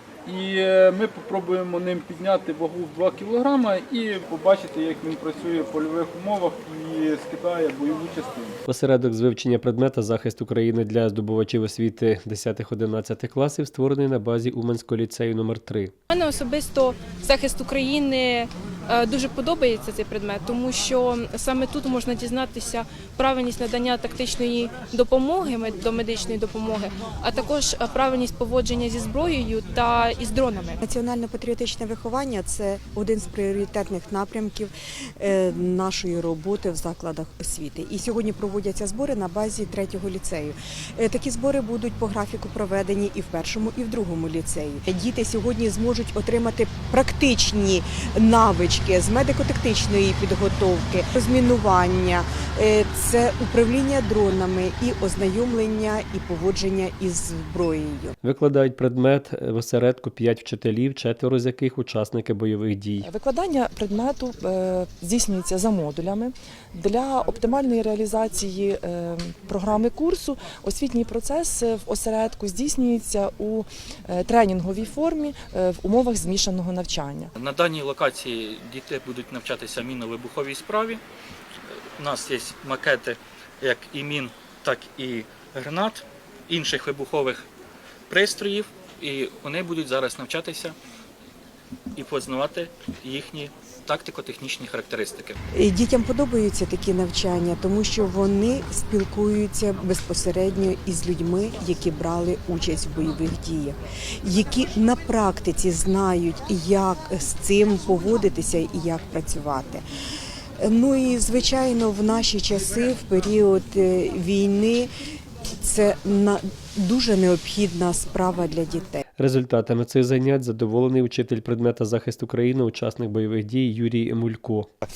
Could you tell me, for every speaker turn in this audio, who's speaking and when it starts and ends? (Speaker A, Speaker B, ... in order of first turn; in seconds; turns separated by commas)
Speaker A: 0.3-8.6, Speaker B: 8.7-15.9, Speaker C: 16.1-30.8, Speaker D: 30.8-58.1, Speaker B: 58.2-63.1, Speaker E: 63.0-77.3, Speaker F: 77.4-81.0, Speaker F: 82.0-87.4, Speaker F: 88.1-90.7, Speaker F: 92.0-95.4, Speaker D: 95.5-109.8, Speaker D: 110.6-114.9, Speaker D: 115.6-119.0, Speaker B: 119.2-124.7